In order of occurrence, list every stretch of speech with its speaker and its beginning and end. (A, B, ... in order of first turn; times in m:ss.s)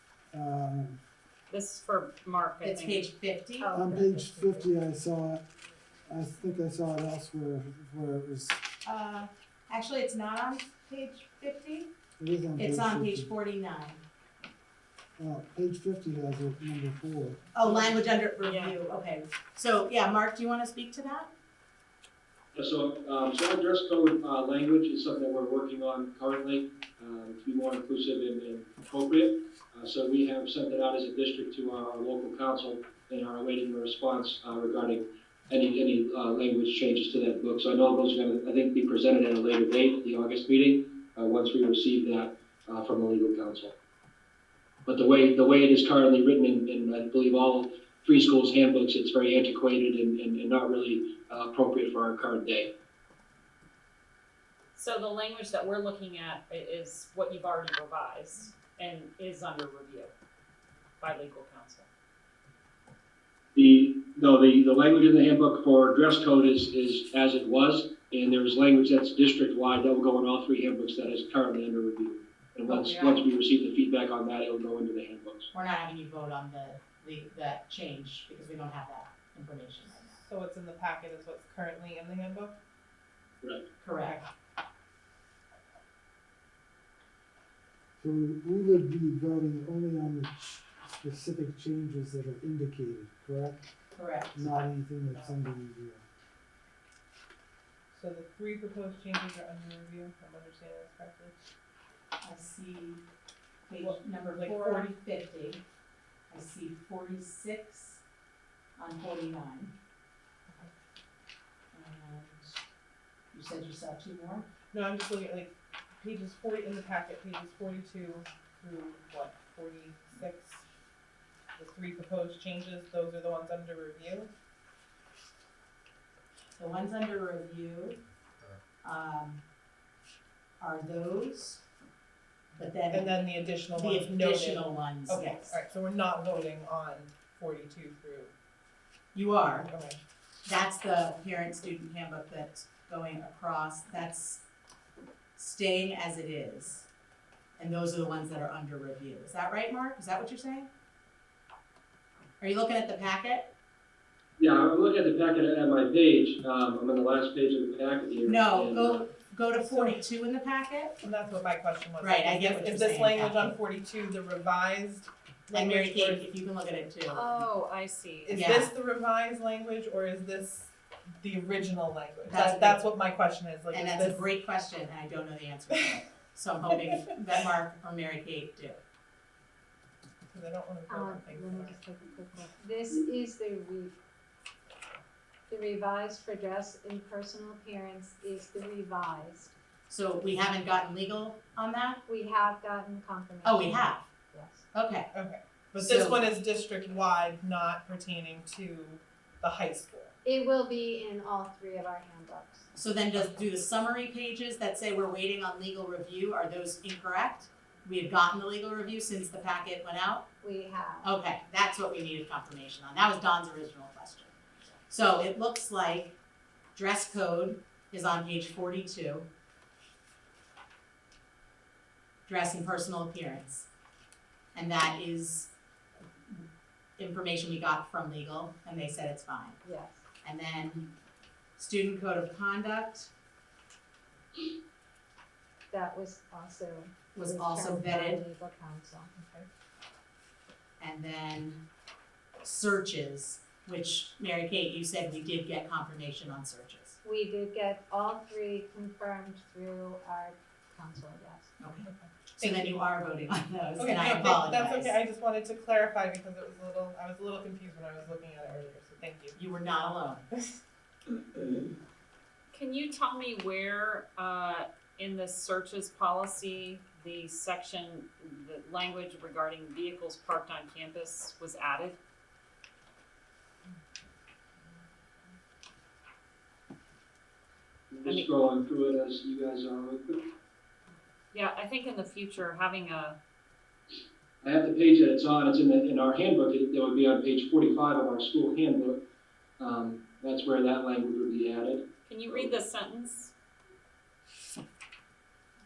0:00.3-0:01.0 A
0:01.5-0:03.0 B
0:02.6-0:03.7 C
0:03.6-0:04.7 D
0:03.7-0:05.4 A
0:06.1-0:08.6 A
0:08.8-0:11.9 C
0:12.2-0:13.3 A
0:12.6-0:14.0 C
0:15.2-0:17.5 A
0:17.5-0:21.3 C
0:18.4-0:18.8 B
0:22.5-0:43.8 E
0:44.8-0:52.7 E
0:54.7-1:00.1 B
1:01.0-1:01.9 B
1:03.5-1:15.5 E
1:12.7-1:13.2 C
1:15.5-1:20.2 C
1:20.2-1:22.6 F
1:23.8-1:24.2 C
1:23.9-1:24.3 F
1:28.0-1:33.7 A
1:33.9-1:34.5 C
1:34.3-1:36.0 A
1:37.9-1:41.4 F
1:42.2-1:43.0 C
1:43.7-1:45.6 C
1:43.8-1:44.9 F
1:46.3-1:48.0 C
1:48.8-1:49.7 C
1:51.7-1:52.6 C
1:53.3-1:54.5 C
1:54.6-2:00.6 F
2:01.6-2:04.3 F
2:06.6-2:08.0 C
2:08.8-2:09.4 C
2:10.6-2:11.6 C
2:12.6-2:13.2 C
2:12.9-2:18.3 F
2:13.7-2:15.6 C
2:19.1-2:19.7 C
2:19.6-2:20.0 F
2:20.4-2:24.4 C
2:25.4-2:26.8 C
2:27.6-2:30.7 C
2:32.4-2:33.5 C
2:34.4-2:39.1 E
2:38.2-2:41.0 C
2:39.6-2:40.0 F
2:41.0-2:46.3 F
2:42.0-2:43.5 C
2:45.5-2:47.5 C
2:47.1-2:48.4 B
2:48.2-2:54.2 F
2:48.3-2:48.7 C
2:52.3-2:52.8 C
2:53.7-2:58.8 C
2:56.8-2:57.2 F
3:00.3-3:01.8 F
3:00.9-3:03.9 D
3:05.5-3:09.5 D
3:09.9-3:12.0 C
3:12.0-3:14.6 D
3:13.4-3:14.0 C
3:14.7-3:15.1 C
3:15.1-3:20.1 F
3:15.8-3:16.2 C
3:20.2-3:22.7 D
3:22.7-3:30.3 C
3:30.4-3:31.1 D
3:31.0-3:34.3 C
3:34.9-3:36.2 C
3:36.7-3:39.3 C
3:42.3-3:43.7 C
3:44.5-3:45.5 C
3:47.0-3:49.6 C
3:49.6-3:50.0 D
3:50.2-3:50.9 C
3:51.6-3:53.1 C
3:55.7-3:59.1 D
3:57.1-3:58.2 C
3:59.1-3:59.5 F
4:00.8-4:01.6 C
4:02.4-4:07.0 C
4:07.0-4:11.5 D
4:11.6-4:14.9 C
4:11.9-4:12.7 F
4:13.8-4:19.4 F
4:19.4-4:20.2 C
4:20.3-4:20.6 F
4:22.5-4:32.0 B
4:37.9-4:40.2 E
4:41.3-4:43.2 B
4:44.4-4:49.0 E
4:49.6-4:52.6 E
4:52.1-4:53.3 B